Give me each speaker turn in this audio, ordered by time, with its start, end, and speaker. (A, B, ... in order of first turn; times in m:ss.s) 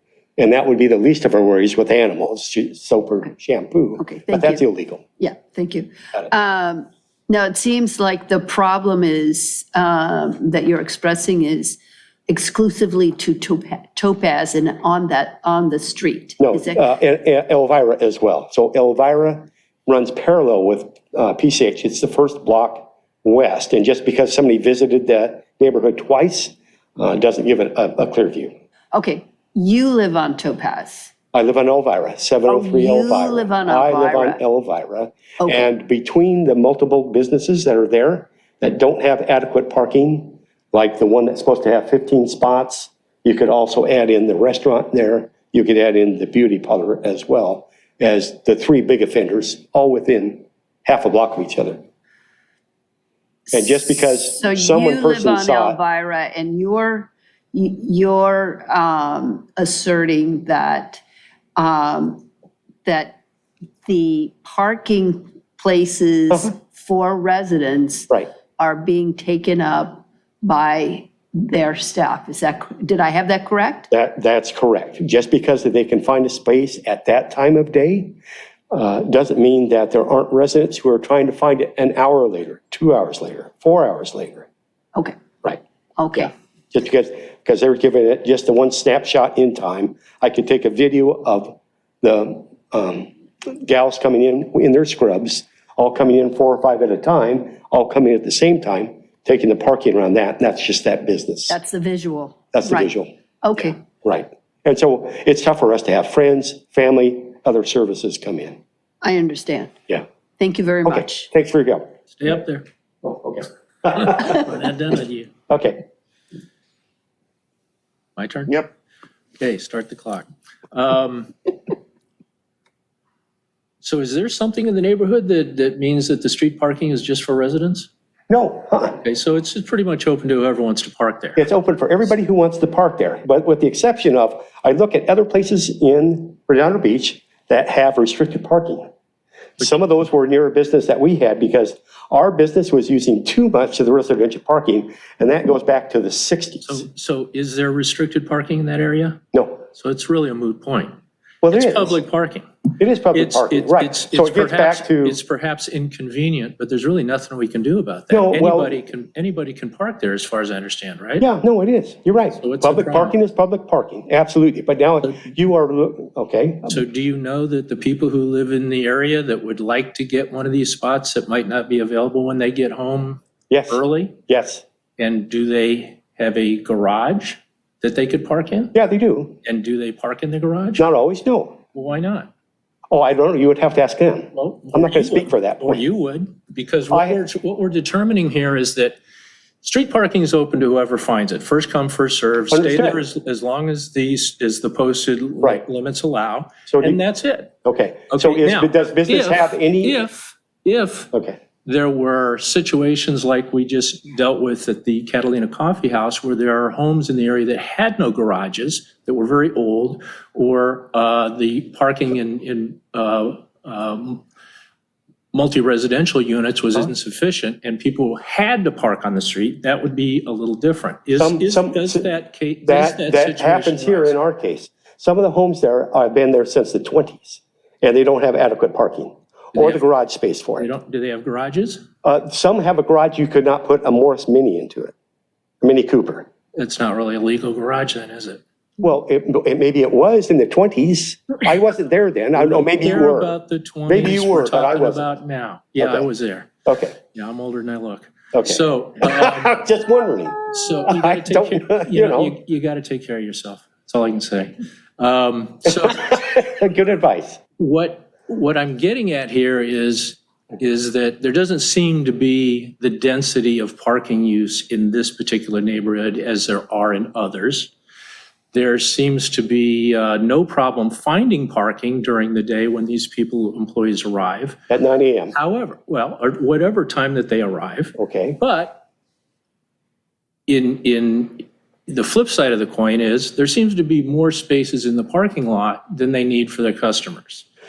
0:00.4-0:05.0 A
0:04.0-0:04.6 B
0:05.2-0:16.9 B
0:16.4-0:28.5 A
0:28.9-0:31.1 B
0:31.3-0:51.8 A
0:32.5-0:34.4 B
0:35.4-0:35.7 B
0:53.5-1:01.0 B
0:53.5-0:55.8 A
1:01.6-1:02.3 B
1:02.8-1:03.2 B
1:03.8-1:13.9 B
1:13.9-1:18.2 A
1:18.7-1:24.5 A
1:26.0-1:26.3 B
1:26.2-1:41.6 A
1:41.5-1:42.9 B
1:42.5-1:48.6 A
1:43.4-1:43.8 B
1:49.0-1:49.8 B
1:50.4-1:51.3 B
1:50.8-1:52.0 A
1:52.1-1:52.7 C
1:53.0-1:54.4 A
1:53.9-1:55.3 C
1:55.5-1:55.8 A
1:58.2-1:58.6 C
1:59.4-2:01.5 C
2:03.8-2:07.9 C
2:08.3-2:09.0 A
2:09.0-2:11.4 C
2:11.4-2:18.9 A
2:19.6-2:26.8 A
2:26.6-2:31.0 C
2:29.3-2:29.6 A
2:31.4-2:32.0 A
2:31.5-2:41.3 C
2:32.8-2:35.2 A
2:38.1-2:38.8 A
2:41.2-2:46.8 A
2:42.4-2:43.2 C
2:46.7-2:54.2 C
2:53.5-2:54.6 A
2:55.0-2:58.7 C
2:58.7-2:59.4 A
2:59.4-3:00.9 C
3:00.8-3:01.6 A
3:01.7-3:02.3 C
3:02.9-3:05.8 A
3:04.3-3:09.0 C
3:06.9-3:07.2 A
3:09.6-3:17.6 C
3:12.5-3:13.0 A
3:16.7-3:17.0 A
3:17.6-3:20.1 A
3:18.1-3:21.1 C
3:21.1-3:21.4 A
3:21.6-3:34.2 C
3:35.3-3:44.2 C
3:41.2-3:42.1 A
3:42.7-3:50.7 A
3:49.6-3:49.8 C
3:50.6-3:51.8 C
3:52.0-3:54.9 A
3:55.6-3:56.3 A
3:56.6-3:58.4 C
3:58.8-4:03.4 A
4:02.4-4:06.5 C
4:03.9-4:05.1 A
4:05.8-4:06.1 A
4:06.7-4:07.0 A
4:07.0-4:09.6 C
4:08.3-4:12.4 A
4:10.5-4:16.1 C
4:15.7-4:17.4 A
4:17.6-4:27.7 C
4:28.5-4:34.6 C
4:34.7-4:35.3 A
4:35.3-4:38.8 C
4:38.0-4:38.4 A
4:40.5-4:47.5 C